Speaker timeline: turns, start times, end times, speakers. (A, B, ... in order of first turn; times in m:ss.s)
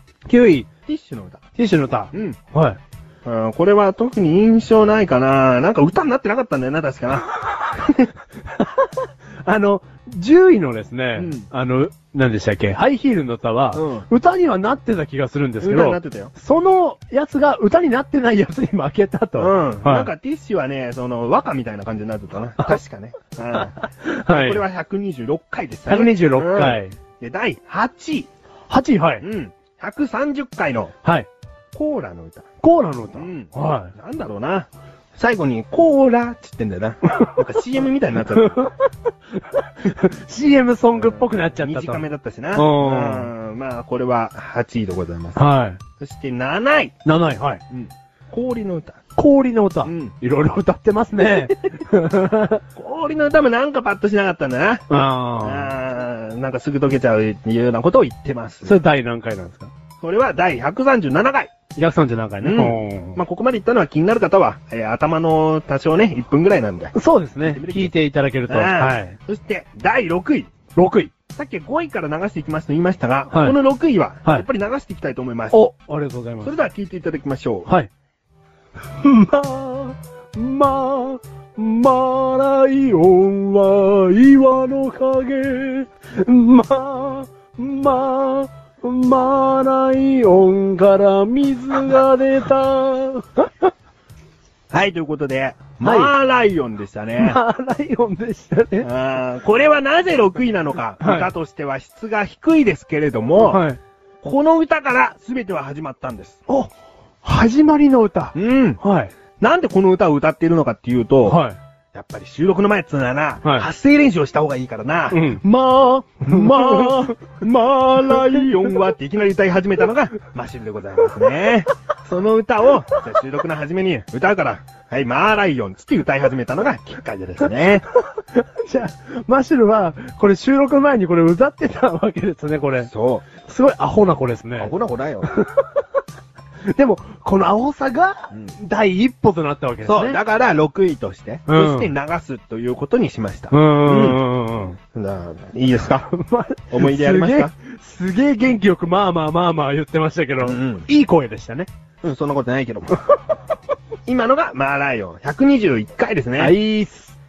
0:00.3-0:00.7 A
0:00.9-0:01.4 B
0:01.6-0:02.8 A
0:02.1-0:02.4 B
0:03.2-0:08.1 B
0:08.5-0:20.1 A
0:11.2-0:11.5 B
0:13.7-0:14.1 B
0:15.6-0:16.3 B
0:19.4-0:28.3 B
0:23.5-0:24.6 A
0:25.9-0:26.9 A
0:28.7-0:29.2 A
0:29.2-0:30.9 B
0:31.0-0:31.3 A
0:31.8-0:32.4 B
0:32.6-0:33.9 A
0:33.2-0:38.7 B
0:39.5-0:43.3 A
0:40.9-0:45.4 B
0:45.4-0:45.8 A
0:46.0-0:46.9 B
0:47.0-0:47.6 A
0:47.7-0:49.0 B
0:49.2-0:52.6 A
0:49.8-0:50.1 B
0:52.8-0:54.9 B
0:54.9-0:55.7 A
0:55.4-0:58.8 B
0:58.6-0:59.7 A
1:00.0-1:01.5 B
1:01.8-1:03.2 A
1:02.4-1:07.9 B
1:06.9-1:09.2 A
1:08.5-1:10.5 B
1:10.8-1:11.1 A
1:11.3-1:15.6 B
1:13.3-1:13.6 A
1:15.5-1:16.5 A
1:16.4-1:17.7 B
1:19.0-1:33.7 A
1:34.7-1:37.4 B
1:35.8-1:36.1 A
1:37.2-1:38.9 A
1:38.8-1:43.6 B
1:41.0-1:41.3 A
1:43.4-1:43.8 A
1:44.2-1:46.4 B
1:47.2-1:49.1 A
1:48.3-1:48.8 B
1:49.4-1:51.4 B
1:51.2-1:51.6 A
1:51.9-2:07.8 B
1:55.1-1:55.4 A
1:56.3-1:56.9 A
2:07.9-2:15.8 A
2:12.8-2:13.2 B
2:14.6-2:15.3 B
2:16.7-2:20.2 A
2:19.8-2:24.2 B
2:21.5-2:21.9 A
2:23.5-2:24.8 A
2:24.8-2:26.1 B
2:26.1-2:31.7 A
2:26.7-2:27.5 B
2:30.4-2:30.8 B
2:32.0-2:33.0 B
2:34.1-2:36.6 B
2:36.4-2:37.2 A